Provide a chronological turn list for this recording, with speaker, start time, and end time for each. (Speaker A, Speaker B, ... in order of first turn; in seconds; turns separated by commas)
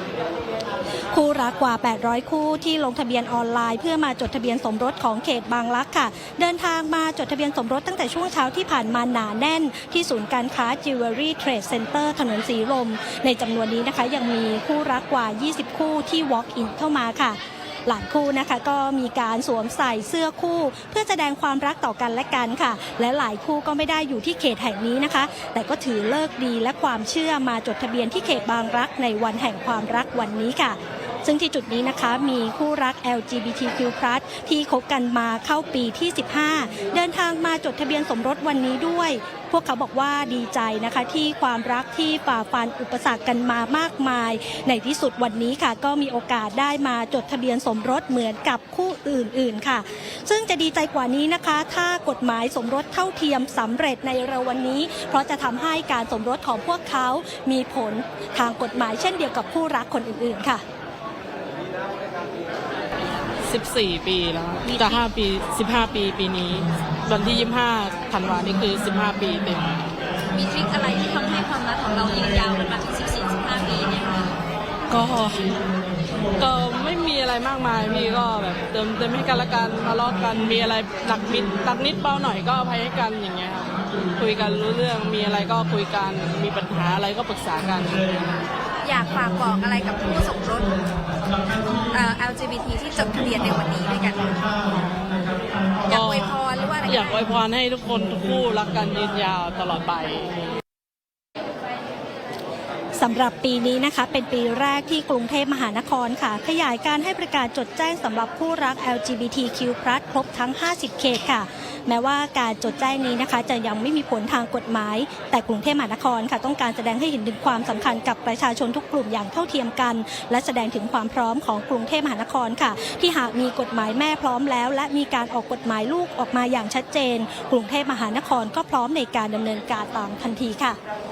Speaker A: 1.1-60.6, Speaker B: 63.0-63.3, Speaker C: 63.4-69.8, Speaker B: 64.6-65.0, Speaker B: 70.3-74.4, Speaker C: 74.9-75.6, Speaker C: 76.4-88.4, Speaker B: 88.8-90.8, Speaker B: 91.5-94.5, Speaker C: 94.6-100.4, Speaker B: 95.9-97.2, Speaker A: 103.0-130.8